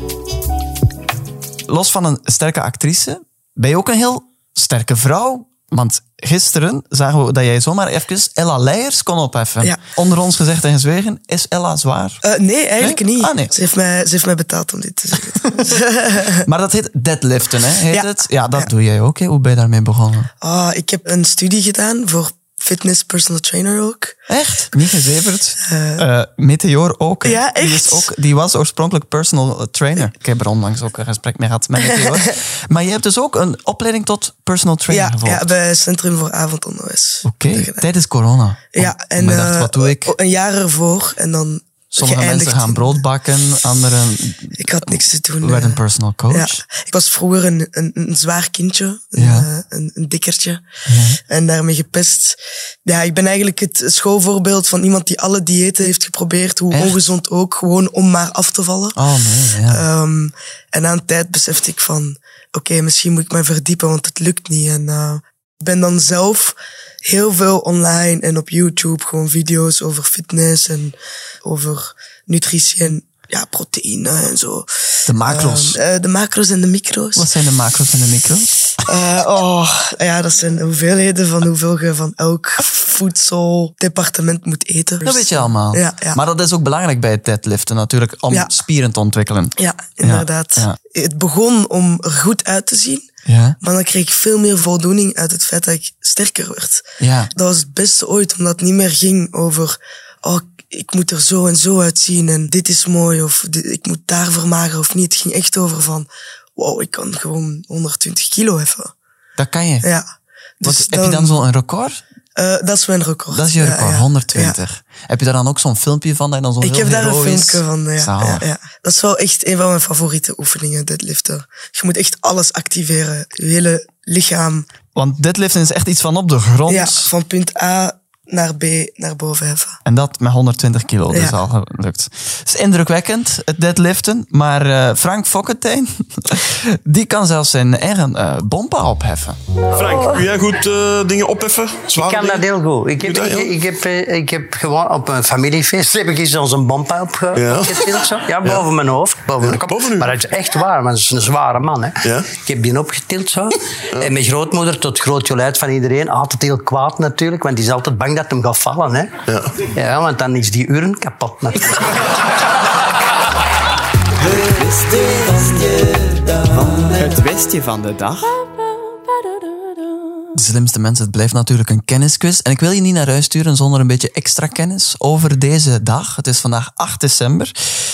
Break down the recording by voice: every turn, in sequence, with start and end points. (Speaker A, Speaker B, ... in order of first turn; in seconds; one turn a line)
Speaker A: 1.7-12.2
Speaker B: 12.2-16.5
Speaker A: 12.8-13.5
Speaker A: 16.4-20.3
Speaker B: 17.9-18.7
Speaker B: 20.4-24.2
Speaker A: 24.3-35.5
Speaker B: 25.6-26.1
Speaker B: 27.2-28.1
Speaker B: 31.8-32.3
Speaker B: 34.9-37.9
Speaker A: 37.2-40.1
Speaker B: 38.7-43.0
Speaker A: 41.9-46.6
Speaker B: 44.6-50.7
Speaker A: 49.2-49.5
Speaker A: 50.9-51.2
Speaker B: 51.3-59.0
Speaker A: 56.7-57.0
Speaker A: 59.0-59.8
Speaker B: 59.7-77.3
Speaker A: 75.1-75.8
Speaker A: 77.2-78.6
Speaker B: 78.8-86.2
Speaker A: 85.0-90.8
Speaker B: 89.6-93.1
Speaker A: 93.3-93.6
Speaker B: 93.6-108.9
Speaker A: 97.0-97.3
Speaker A: 109.4-109.8
Speaker B: 109.8-110.1
Speaker B: 110.6-111.5
Speaker A: 110.6-112.0
Speaker B: 112.3-114.6
Speaker A: 113.3-118.5
Speaker B: 116.6-124.7
Speaker A: 125.0-127.1
Speaker B: 126.7-129.8
Speaker A: 129.9-139.4
Speaker B: 131.1-131.4
Speaker C: 139.8-143.6
Speaker D: 141.9-161.8
Speaker C: 147.3-148.7
Speaker C: 149.4-150.2
Speaker C: 152.0-152.3
Speaker C: 159.3-159.6
Speaker A: 164.2-168.4
Speaker A: 170.3-177.5